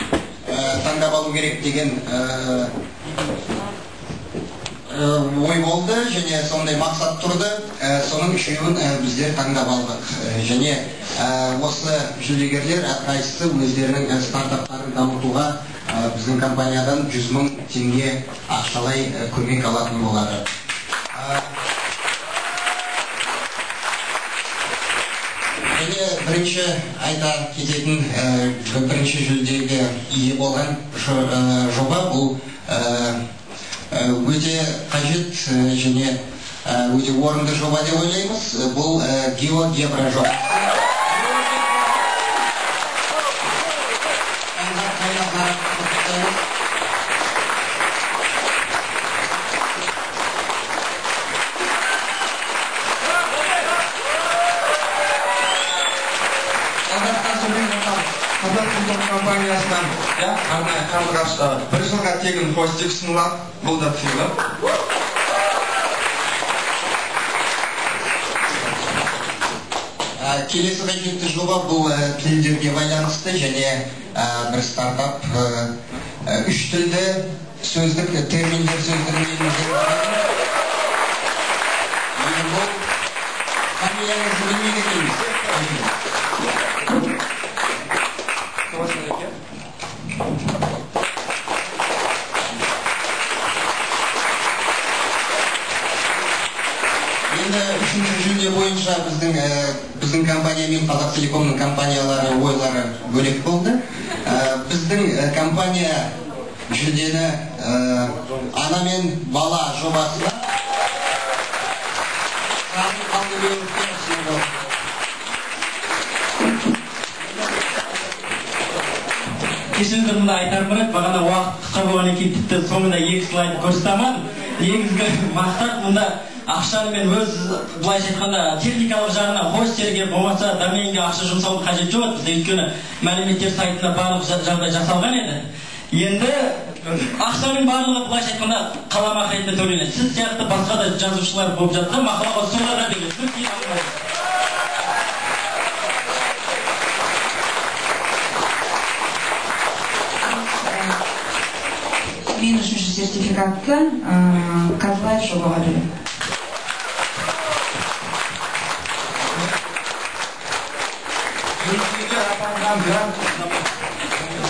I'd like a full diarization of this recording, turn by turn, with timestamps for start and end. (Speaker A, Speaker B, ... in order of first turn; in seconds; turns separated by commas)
Speaker A: 0.4-2.7, Speaker A: 4.9-20.4, Speaker A: 21.1-21.5, Speaker A: 25.7-33.2, Speaker A: 33.9-41.5, Speaker A: 44.5-46.4, Speaker B: 56.9-64.3, Speaker A: 70.2-75.7, Speaker A: 76.2-80.2, Speaker A: 82.2-82.8, Speaker A: 83.8-85.8, Speaker B: 88.7-89.3, Speaker A: 97.3-106.1, Speaker A: 106.7-110.4, Speaker A: 112.7-114.5, Speaker C: 119.7-143.9, Speaker D: 150.2-151.0, Speaker D: 152.3-155.9, Speaker B: 161.6-163.5